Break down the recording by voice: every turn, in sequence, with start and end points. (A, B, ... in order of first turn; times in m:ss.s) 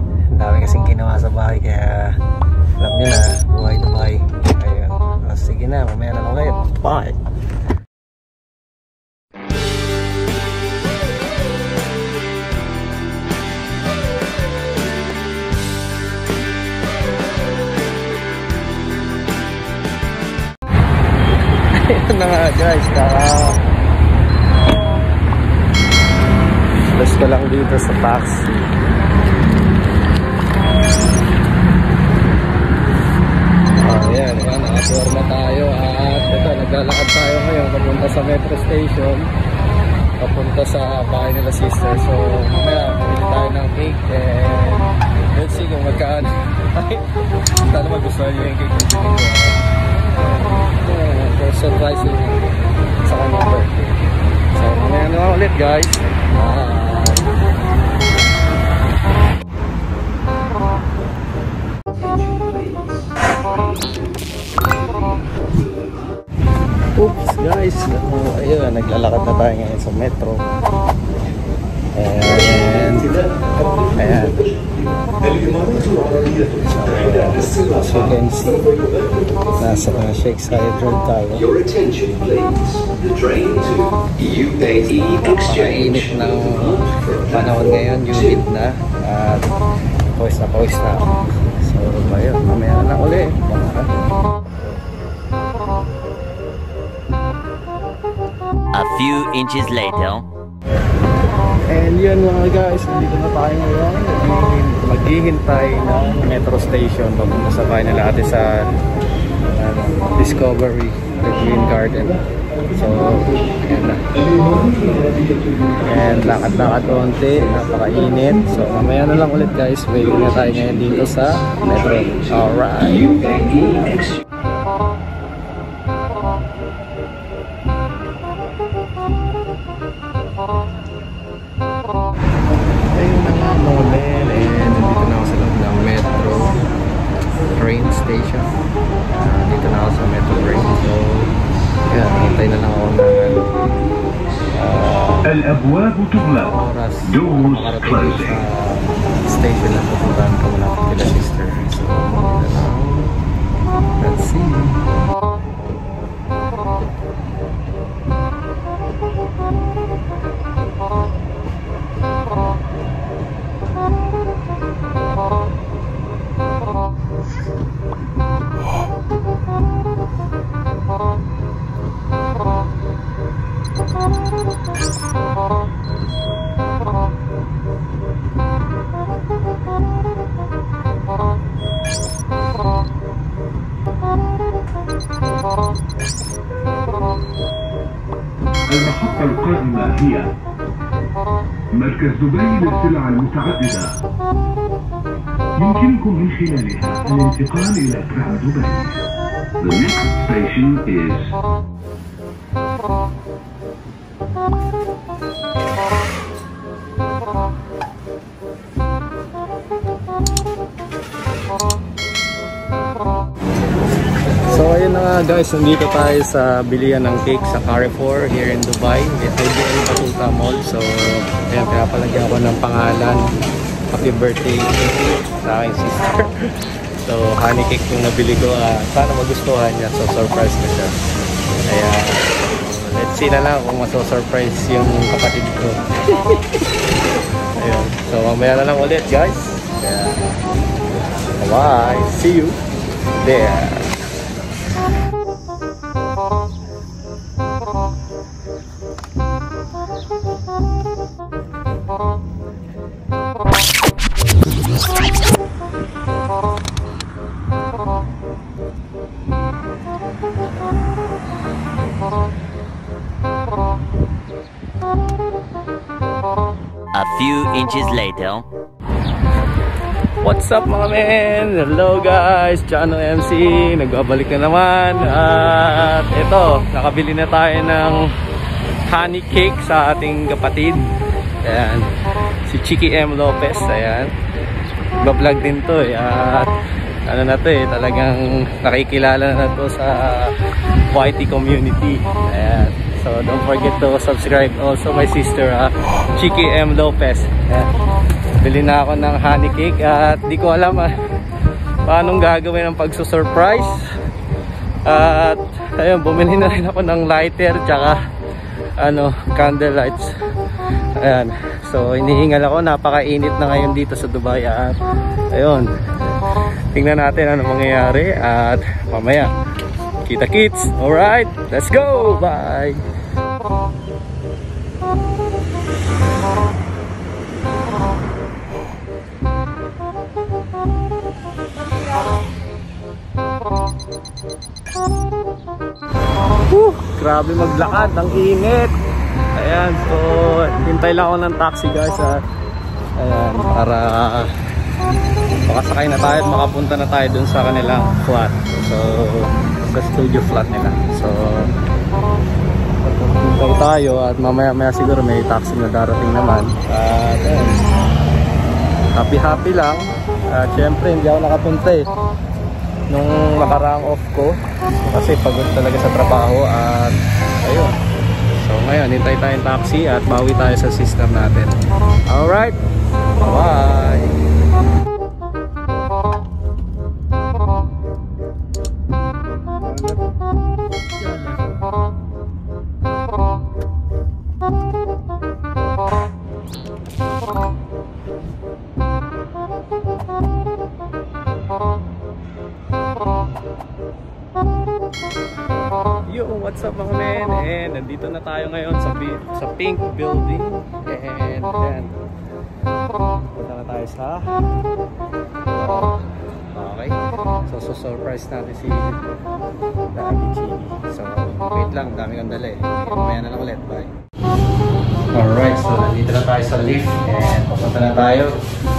0:00.3-0:02.2 A
0:02.8-0:07.2 A
0:21.7-0:23.6 A
0:26.8-0:28.8 A
0:33.8-0:39.3 A
0:40.2-0:52.5 A
0:53.0-0:57.3 A
1:02.1-1:02.6 B
1:06.9-1:10.5 A
1:11.9-1:13.3 A
1:13.9-1:14.4 A
1:15.4-1:15.8 C
1:15.6-1:16.4 B
1:16.4-1:18.8 A
1:19.5-1:21.6 A
1:21.6-1:24.4 B
1:24.3-1:33.9 A
1:38.7-1:40.3 D
1:41.7-1:48.7 A
1:49.4-1:54.7 A
1:55.7-2:04.0 A
2:12.9-2:16.6 A
2:17.5-2:18.5 A
2:19.2-2:21.3 A
2:21.9-2:23.5 A
2:24.6-2:25.3 A
2:25.2-2:28.4 C
2:26.4-2:33.1 A
2:34.0-2:34.8 A
3:08.7-3:10.3 C
3:11.7-3:14.0 C
3:15.6-3:19.0 C
3:19.6-3:21.3 C
3:34.4-3:43.2 A
3:43.9-3:51.0 A
3:51.7-3:56.6 A
3:57.6-4:00.2 A
4:01.4-4:02.6 A
4:03.1-4:04.0 A
4:26.9-4:28.4 D
4:30.2-4:38.1 A
4:38.9-4:41.9 A
4:42.4-4:44.1 A
4:45.0-4:46.5 A
4:47.1-4:50.3 A
4:50.9-4:57.8 A
4:58.4-5:00.9 A
5:01.9-5:03.9 A
5:04.9-5:08.0 A
5:08.8-5:10.1 A
5:11.0-5:14.8 A
5:15.3-5:15.7 A
5:16.7-5:19.3 A
5:20.0-5:22.8 A
5:36.4-5:38.8 A
5:39.4-5:42.2 A
5:43.0-5:44.3 A
5:45.4-5:51.5 A
5:52.8-5:57.6 A
5:58.9-6:01.9 A
6:02.9-6:07.8 A
6:08.3-6:12.6 A
6:13.2-6:14.2 A
6:36.1-6:42.0 A
6:43.3-6:44.3 A
6:45.5-6:49.2 A
6:49.9-6:54.0 A
6:55.1-6:58.4 A